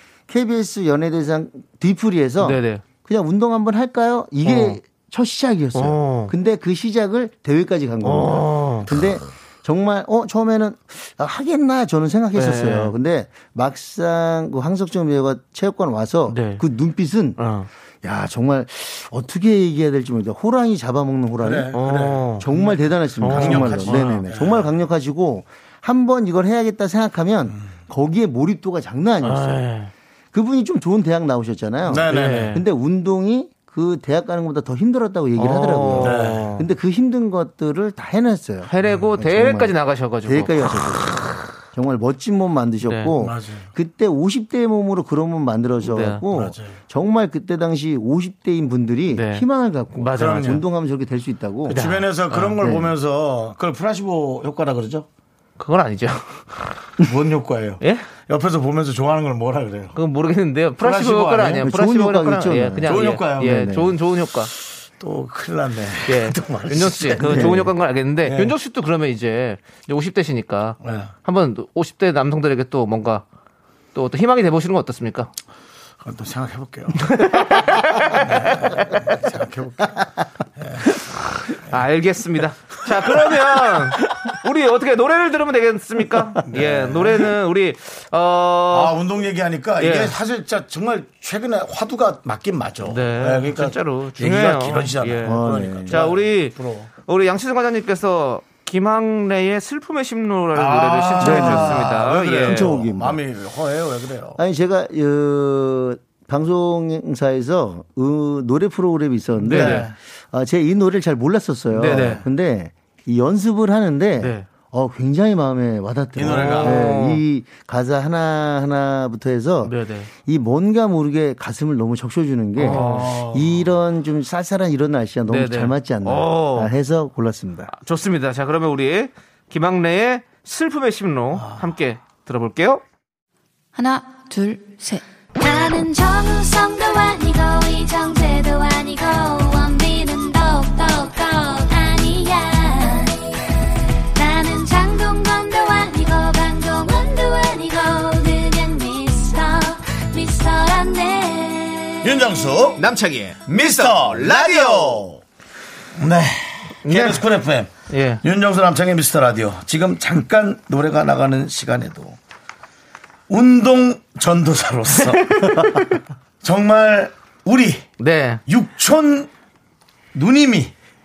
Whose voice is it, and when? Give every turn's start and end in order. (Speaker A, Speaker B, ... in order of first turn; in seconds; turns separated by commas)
Speaker A: 0.3-17.4, Speaker B: 2.4-2.8, Speaker B: 4.4-4.8, Speaker B: 5.7-6.3, Speaker B: 8.0-8.9, Speaker B: 12.3-12.9, Speaker B: 16.3-16.6, Speaker B: 17.4-17.7, Speaker A: 18.0-21.7, Speaker C: 21.4-24.7, Speaker B: 21.7-22.4, Speaker A: 22.4-29.6, Speaker B: 23.2-24.2, Speaker B: 29.2-29.9, Speaker A: 30.3-51.8, Speaker C: 31.8-32.6, Speaker B: 32.1-32.6, Speaker B: 35.4-36.6, Speaker C: 36.0-36.5, Speaker B: 38.6-40.7, Speaker B: 42.9-43.1, Speaker C: 43.2-43.6, Speaker B: 45.8-46.2, Speaker C: 46.3-46.7, Speaker B: 49.1-50.6, Speaker C: 50.1-50.6, Speaker B: 51.7-52.6, Speaker C: 51.7-55.1, Speaker A: 52.6-52.9, Speaker B: 55.6-56.6, Speaker C: 57.0-59.9, Speaker B: 57.8-58.1, Speaker B: 59.9-64.5, Speaker C: 60.8-61.7, Speaker A: 61.6-63.9, Speaker C: 62.8-63.7, Speaker C: 65.0-67.7, Speaker B: 66.1-73.2, Speaker A: 67.2-67.7, Speaker C: 68.2-68.5, Speaker C: 70.8-71.1, Speaker B: 73.9-75.3, Speaker C: 76.0-77.3, Speaker B: 77.0-78.9, Speaker C: 78.1-80.1, Speaker C: 80.6-80.9, Speaker B: 81.5-89.0, Speaker C: 83.0-83.4, Speaker C: 86.5-87.3, Speaker C: 88.7-96.9, Speaker B: 89.8-90.1, Speaker B: 92.8-102.8, Speaker A: 95.2-96.0, Speaker C: 100.5-104.4, Speaker A: 101.2-103.2, Speaker A: 104.4-119.7, Speaker B: 109.4-109.9, Speaker C: 109.5-109.9, Speaker B: 111.7-112.2, Speaker C: 111.9-112.2, Speaker B: 114.2-114.5, Speaker C: 116.1-116.9, Speaker B: 116.2-117.2, Speaker B: 119.6-120.1, Speaker A: 120.2-127.7, Speaker B: 122.6-123.2, Speaker C: 122.6-123.7, Speaker B: 125.3-126.7, Speaker B: 127.7-132.8, Speaker D: 133.8-135.0, Speaker E: 135.5-143.0, Speaker D: 135.7-136.0, Speaker D: 139.4-140.4, Speaker D: 141.1-143.0, Speaker D: 144.2-149.4, Speaker E: 144.2-151.9, Speaker D: 151.1-151.6, Speaker C: 152.0-152.9, Speaker B: 152.8-155.1, Speaker C: 153.4-155.2, Speaker C: 155.9-162.2, Speaker B: 156.8-157.2, Speaker B: 157.9-158.2, Speaker C: 163.3-165.9, Speaker B: 164.9-166.0, Speaker C: 166.4-167.9, Speaker B: 168.0-168.4, Speaker C: 168.5-169.3, Speaker C: 170.1-170.7